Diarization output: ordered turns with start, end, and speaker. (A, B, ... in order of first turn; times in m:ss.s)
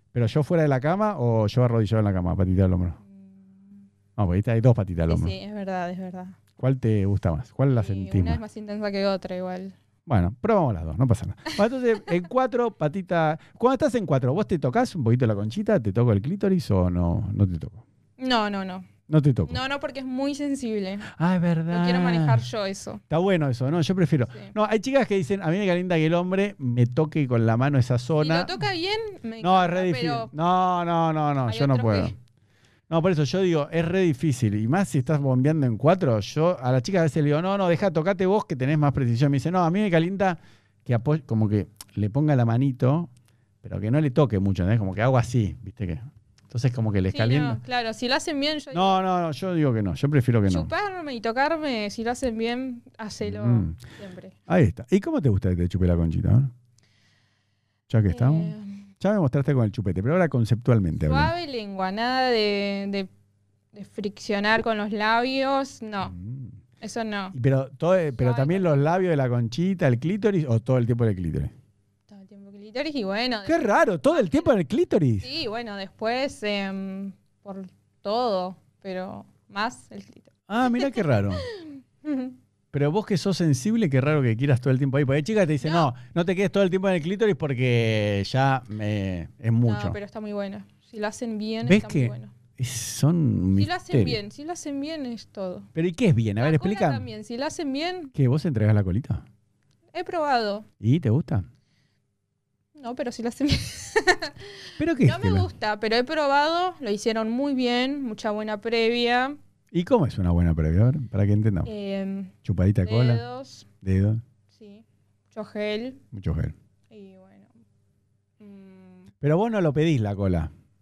0:00.1-0:03.0 A
0:03.2-0:03.6 B
0:04.2-0:05.3 A
0:05.1-0:06.4 B
0:06.6-0:08.4 A
0:07.7-0:09.8 B
0:10.0-0:17.8 A
0:18.2-0:18.9 B
0:19.1-0:19.6 A
0:19.4-0:21.1 B
0:21.1-0:22.4 A
0:21.7-0:23.0 B
0:23.1-0:28.6 A
0:28.2-0:30.3 B
0:29.4-0:32.1 A
0:31.4-0:32.1 B
0:32.9-0:43.1 A
0:43.6-0:47.6 A
0:47.1-0:49.0 B
0:48.7-0:50.7 A
0:50.5-0:54.4 B
0:53.2-0:53.8 A
0:54.5-0:56.5 A
0:57.9-1:01.3 A
0:58.1-0:58.9 B
1:01.0-1:03.1 B
1:03.7-1:06.1 B
1:06.0-1:06.6 A
1:06.8-1:07.3 B
1:07.3-1:11.5 A
1:08.1-1:09.1 B
1:12.1-1:14.5 B
1:13.4-1:15.3 A
1:15.2-1:22.4 B
1:20.5-1:21.4 A
1:22.7-1:30.0 A
1:25.6-1:25.9 B
1:29.6-1:32.3 B
1:31.6-1:34.2 A
1:33.5-1:35.7 B
1:35.7-1:37.1 A
1:36.4-1:38.1 B
1:38.1-1:39.2 A
1:39.9-1:40.6 B
1:40.8-1:41.4 A
1:42.8-1:49.4 B
1:44.8-1:45.5 A
1:49.7-1:51.7 A
1:51.6-1:53.7 B
1:52.4-1:53.2 A
1:53.8-1:54.2 A
1:54.5-1:56.0 B
1:56.1-1:56.5 A
1:56.9-1:57.5 B
1:58.4-1:59.1 B
1:59.2-2:00.5 A